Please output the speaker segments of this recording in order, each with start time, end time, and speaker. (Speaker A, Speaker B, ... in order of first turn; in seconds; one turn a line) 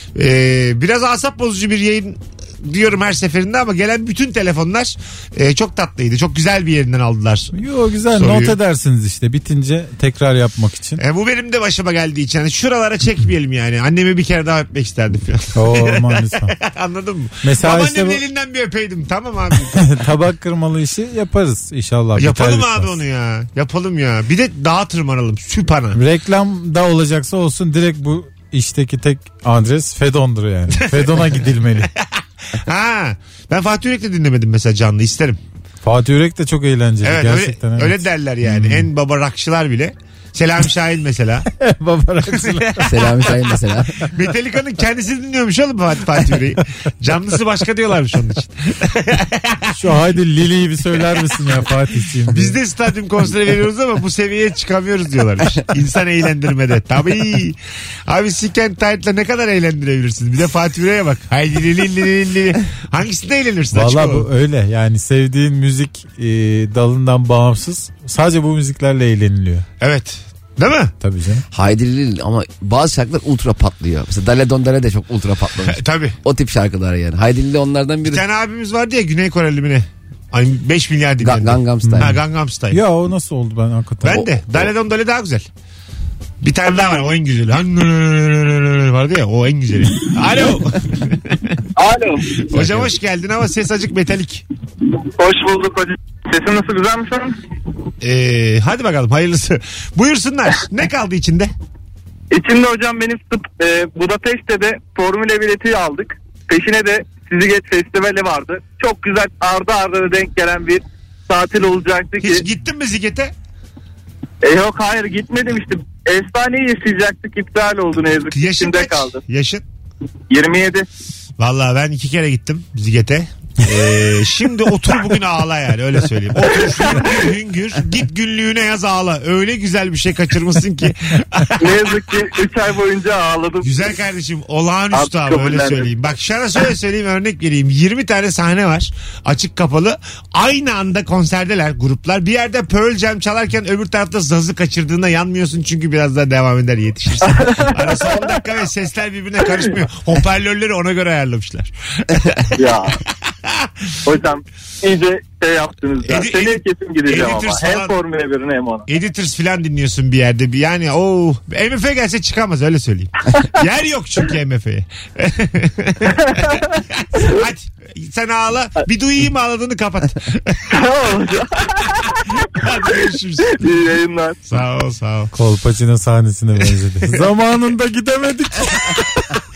Speaker A: 0.1-7.5
Speaker B: 7.5-11.0
Speaker A: 8.1-8.6
Speaker A: 11.0-19.9
Speaker B: 15.6-16.5
Speaker B: 17.4-18.2
Speaker B: 19.8-23.0
Speaker A: 22.2-26.0
Speaker B: 25.9-31.9
Speaker A: 30.7-35.4
Speaker B: 35.8-38.9
Speaker A: 37.0-41.5
Speaker B: 41.5-42.9
Speaker A: 42.3-43.3
Speaker C: 42.8-43.9
Speaker A: 44.1-49.7
Speaker B: 49.7-52.6
Speaker A: 52.3-64.3
Speaker B: 63.7-69.7
Speaker A: 69.8-70.9
Speaker B: 71.0-71.4
Speaker C: 71.5-78.2
Speaker A: 75.7-76.2
Speaker A: 78.0-82.8
Speaker C: 81.2-82.2
Speaker B: 81.8-82.2
Speaker B: 82.7-84.4
Speaker A: 84.0-85.5
Speaker A: 86.4-91.6
Speaker D: 91.8-92.2
Speaker A: 92.5-94.4
Speaker B: 92.5-92.9
Speaker D: 95.2-97.3
Speaker A: 98.0-101.5
Speaker D: 102.3-112.4
Speaker A: 112.2-113.3
Speaker D: 114.4-119.2
Speaker A: 118.3-119.6
Speaker D: 120.3-120.9
Speaker A: 121.4-132.2
Speaker D: 131.6-133.7
Speaker A: 133.6-152.7
Speaker D: 134.9-135.9
Speaker D: 147.4-147.8
Speaker D: 152.6-152.9
Speaker A: 153.4-153.9
Speaker D: 154.1-158.8
Speaker A: 156.0-158.0
Speaker A: 158.9-170.8
Speaker D: 170.7-171.4
Speaker A: 172.3-173.6
Speaker D: 173.6-174.4
Speaker A: 174.5-175.3
Speaker B: 175.3-179.3